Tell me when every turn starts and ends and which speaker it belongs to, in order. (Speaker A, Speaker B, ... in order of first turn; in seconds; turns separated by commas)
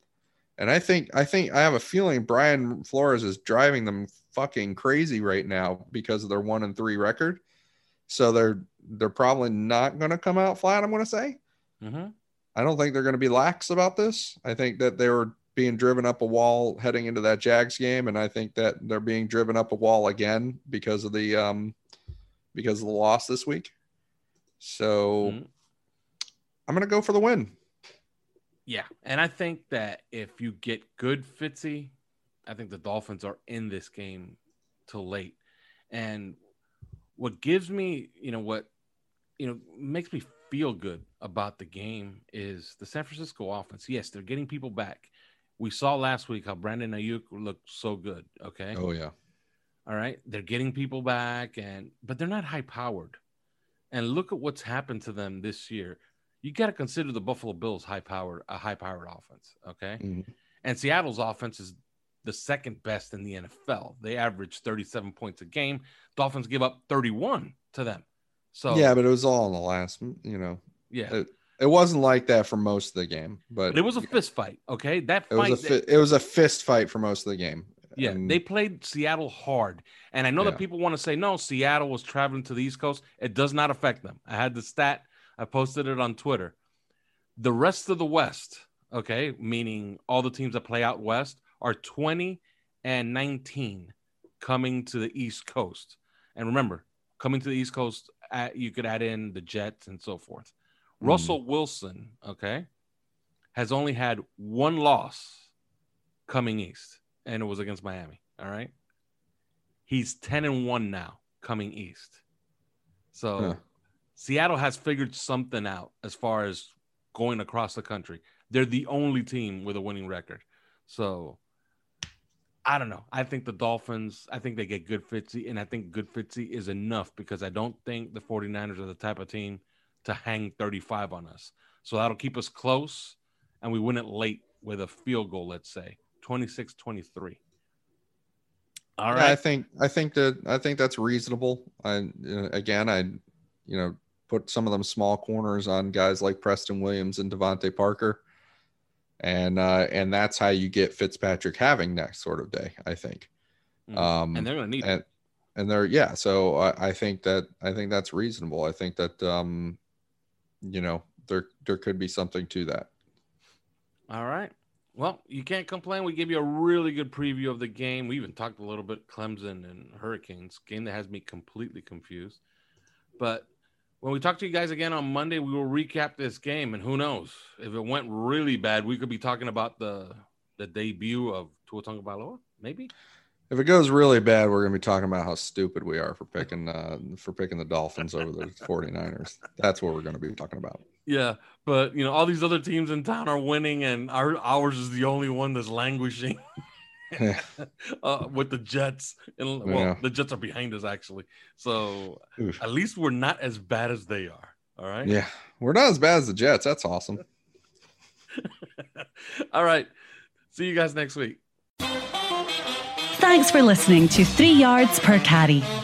Speaker A: 0.6-7.4, Speaker A: 8.1-11.4, Speaker B: 11.8-12.1, Speaker A: 12.5-21.8, Speaker A: 22.5-23.7, Speaker A: 24.6-25.4, Speaker B: 25.2-25.5, Speaker A: 26.7-27.6, Speaker B: 28.7-31.9, Speaker B: 32.5-35.4, Speaker B: 35.9-36.4, Speaker B: 37.1-38.7, Speaker B: 39.4-48.8, Speaker A: 48.7-49.1, Speaker B: 49.9-53.2, Speaker B: 53.9-60.0, Speaker A: 60.0-60.3, Speaker B: 60.6-68.9, Speaker A: 68.7-74.1, Speaker B: 70.9-71.2, Speaker B: 73.7-75.8, Speaker A: 75.3-78.4, Speaker B: 78.0-86.5, Speaker B: 87.4-102.7, Speaker A: 101.0-101.3, Speaker B: 103.5-105.5, Speaker B: 106.3-108.7, Speaker B: 109.9-112.2, Speaker B: 113.1-113.6, Speaker B: 114.2-121.4, Speaker B: 122.6-137.4, Speaker B: 139.0-139.4, Speaker A: 139.1-148.2, Speaker A: 149.2-153.3, Speaker B: 153.9-154.9, Speaker A: 153.9-155.0, Speaker A: 155.6-159.8, Speaker A: 160.6-162.9, Speaker B: 164.1-172.4, Speaker B: 173.2-173.4, Speaker B: 174.0-182.9, Speaker A: 183.5-190.8, Speaker B: 191.1-196.4, Speaker B: 197.1-205.2, Speaker A: 197.2-197.4, Speaker A: 199.6-200.0, Speaker A: 205.0-207.2, Speaker B: 208.4-209.9, Speaker B: 210.5-211.4, Speaker C: 213.2-215.7